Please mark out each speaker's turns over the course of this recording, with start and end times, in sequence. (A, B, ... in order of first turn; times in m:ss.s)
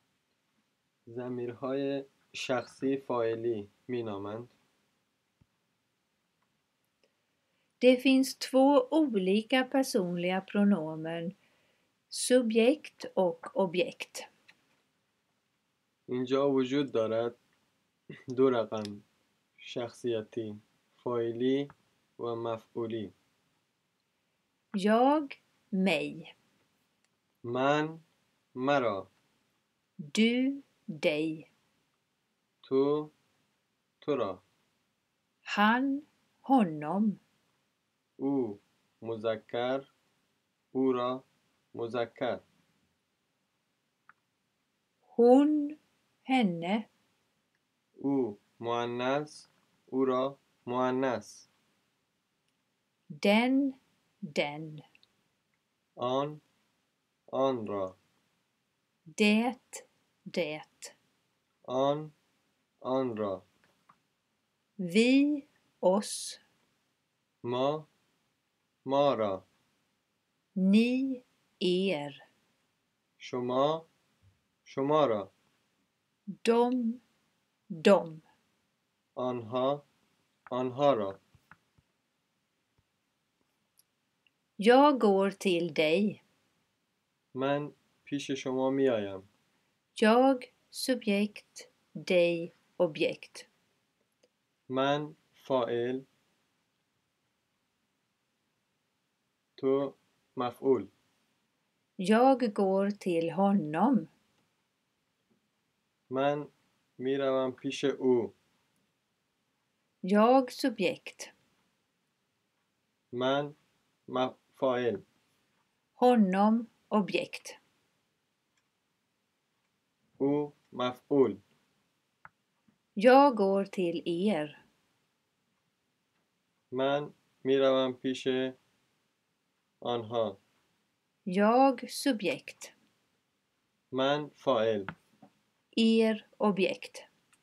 0:01.1-0:04.5 A
0:07.8-0:11.4 B
0:12.1-0:14.3 B
0:16.1-0:17.4 A
0:18.3-0:19.0 A
0:19.6-0:23.1 A
0:24.8-0:26.3 B
0:27.4-0:28.0 A
0:28.6-0:29.1 A
0:30.0-0:31.5 B
0:32.6-0:33.1 A
0:34.0-0:34.4 A
0:35.4-0:37.2 B
0:38.2-0:39.9 A
0:40.7-0:42.4 A
0:45.1-0:46.9 B
0:48.0-0:51.5 A
0:53.2-0:54.8 B
0:56.0-0:56.4 A
0:57.3-0:58.0 A
0:59.1-1:01.0 B
1:01.7-1:02.1 A
1:02.8-1:03.4 A
1:04.8-1:06.4 B
1:07.4-1:07.9 A
1:08.8-1:09.4 A
1:10.6-1:12.2 B
1:13.2-1:13.9 A
1:14.6-1:15.3 A
1:16.4-1:17.0 B
1:17.7-1:18.2 B
1:19.2-1:19.8 A
1:20.5-1:21.2 A
1:24.6-1:26.2 B
1:27.3-1:29.3 A
1:29.9-1:33.5 B
1:34.7-1:36.1 A
1:39.6-1:40.9 A
1:42.0-1:44.1 B
1:46.1-1:48.3 A
1:50.0-1:51.3 B
1:53.1-1:53.6 A
1:54.1-1:55.0 A
1:56.0-1:57.6 B
2:00.2-2:01.4 A
2:03.0-2:04.6 B
2:06.7-2:08.6 A
2:09.8-2:10.4 A
2:11.3-2:12.7 B
2:13.9-2:14.9 A
2:15.8-2:17.1 B